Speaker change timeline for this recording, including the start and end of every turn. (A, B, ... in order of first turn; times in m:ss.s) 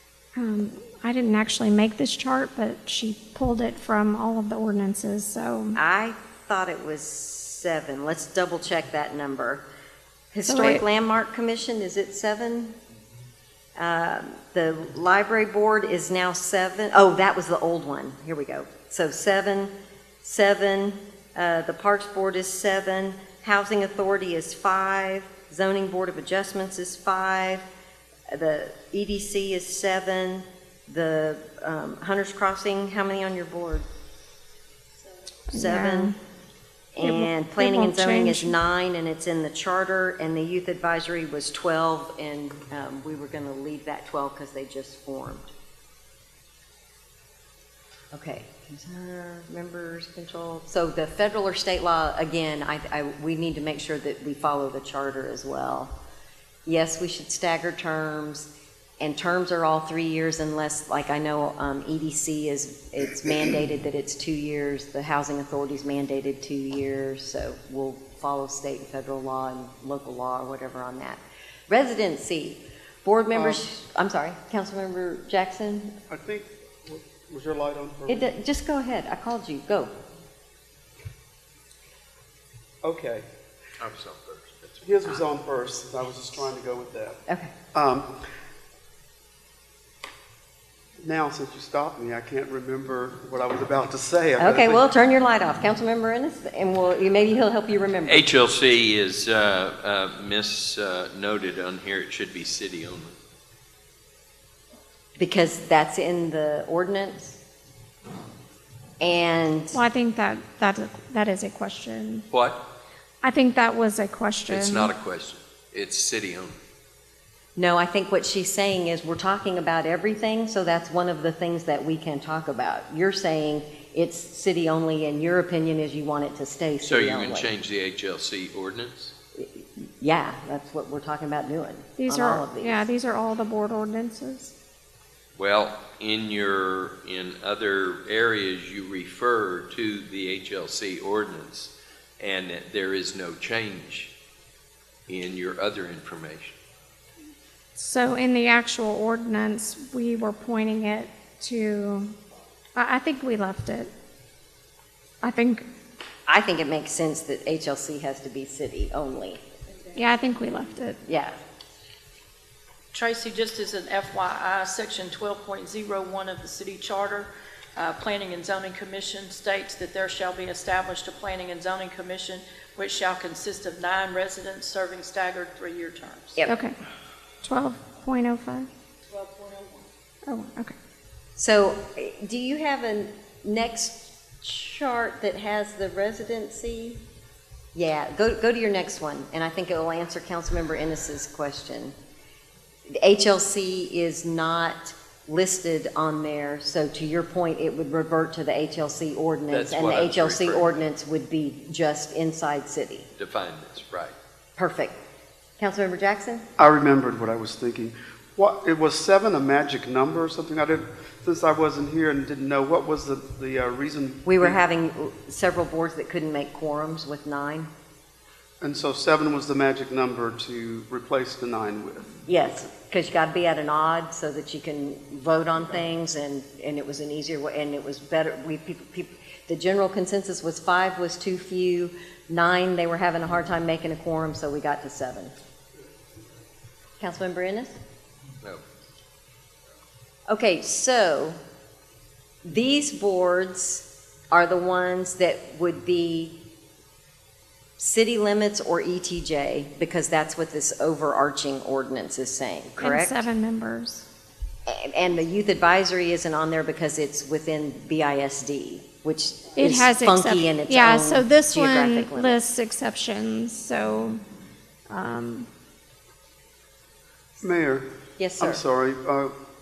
0:00.4-0:05.8 A
0:05.8-0:09.6 B
0:10.3-0:12.8 B
0:10.5-0:10.8 A
0:13.8-0:27.6 B
0:28.3-0:33.9 B
0:35.5-0:36.1 A
0:35.5-0:36.1 B
0:37.0-0:45.5 B
0:37.0-0:38.5 A
0:48.1-0:56.0 B
0:56.7-0:58.5 B
0:59.0-1:15.9 B
1:13.3-1:13.6 C
1:16.1-1:18.3 C
1:18.1-1:19.9 B
1:22.8-1:23.3 C
1:23.8-1:24.8 D
1:24.8-1:27.2 C
1:27.3-1:27.5 B
1:27.7-1:28.1 C
1:31.0-1:34.8 C
1:34.4-1:38.3 B
1:38.0-1:43.2 D
1:45.2-1:47.4 B
1:49.0-1:49.8 B
1:49.7-1:52.2 A
1:52.3-1:52.6 D
1:53.2-1:55.0 A
1:54.5-1:56.6 D
1:57.6-2:07.5 B
2:06.8-2:09.1 D
2:09.4-2:12.9 B
2:12.0-2:14.5 A
2:15.4-2:24.1 D
2:25.1-2:26.6 D
2:27.8-2:32.2 A
2:32.8-2:33.9 A
2:35.2-2:35.7 A
2:36.3-2:39.4 B
2:40.0-2:41.0 A
2:41.1-2:41.4 B
2:42.9-2:56.4 E
2:56.4-2:56.8 A
2:57.4-2:58.7 A
2:59.1-2:59.8 E
3:00.3-3:00.7 A
3:01.4-3:07.0 B
3:07.8-3:11.9 B
3:12.9-3:23.1 B
3:19.5-3:20.8 D
3:23.2-3:24.2 D
3:24.6-3:25.0 B
3:25.6-3:26.5 B
3:26.6-3:34.6 C
3:34.2-3:37.7 B
3:38.6-3:42.2 C
3:42.3-3:55.3 B
3:57.0-3:57.8 B
4:00.3-4:01.4 B
4:02.4-4:06.4 B
4:07.8-4:13.2 B
4:12.8-4:14.1 A
4:14.7-4:22.4 B
4:19.6-4:24.2 A
4:24.9-4:25.5 A
4:27.4-4:27.8 C
4:28.2-4:28.6 B
4:28.4-4:29.3 C